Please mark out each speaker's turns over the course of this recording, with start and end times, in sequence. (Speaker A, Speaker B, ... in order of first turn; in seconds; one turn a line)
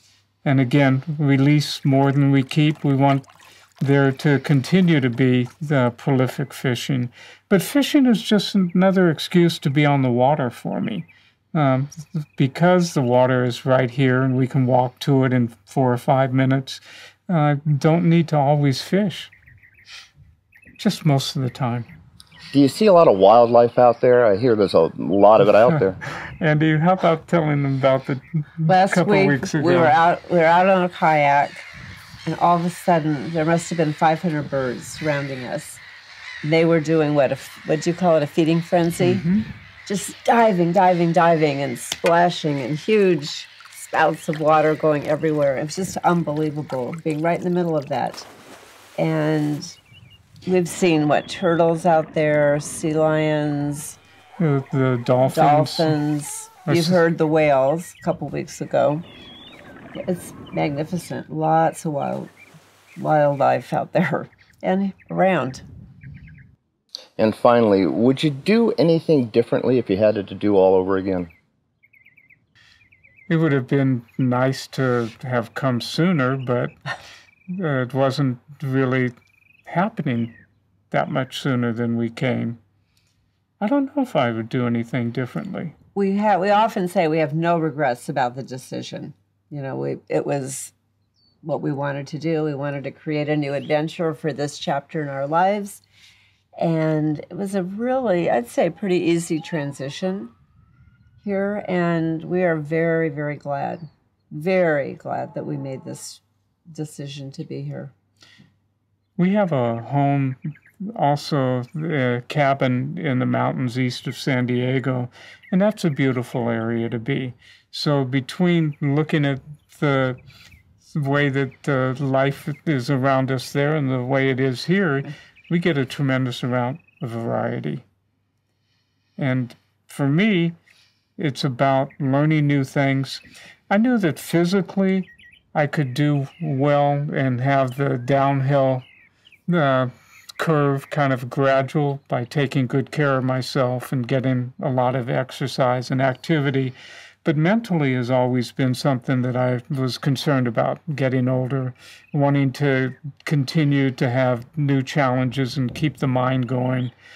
Speaker A: 0.4-3.2
Speaker A: 3.8-19.3
Speaker A: 20.8-21.9
Speaker B: 22.5-26.0
Speaker A: 26.1-30.0
Speaker C: 28.6-31.6
Speaker C: 32.2-35.8
Speaker C: 36.4-39.3
Speaker A: 39.0-39.5
Speaker C: 39.9-48.3
Speaker C: 49.0-49.8
Speaker C: 50.4-54.0
Speaker A: 54.4-56.0
Speaker C: 55.2-59.0
Speaker A: 56.7-57.0
Speaker C: 59.9-62.3
Speaker C: 63.0-65.6
Speaker B: 67.2-71.3
Speaker A: 73.3-76.7
Speaker A: 77.5-79.1
Speaker A: 79.7-80.3
Speaker A: 80.9-82.6
Speaker A: 83.6-85.7
Speaker C: 85.9-90.7
Speaker C: 91.4-95.8
Speaker C: 96.6-100.3
Speaker C: 101.2-106.2
Speaker C: 106.7-107.9
Speaker A: 109.2-120.2
Speaker A: 120.8-127.8
Speaker A: 129.2-130.6
Speaker A: 131.2-138.8
Speaker A: 139.5-156.9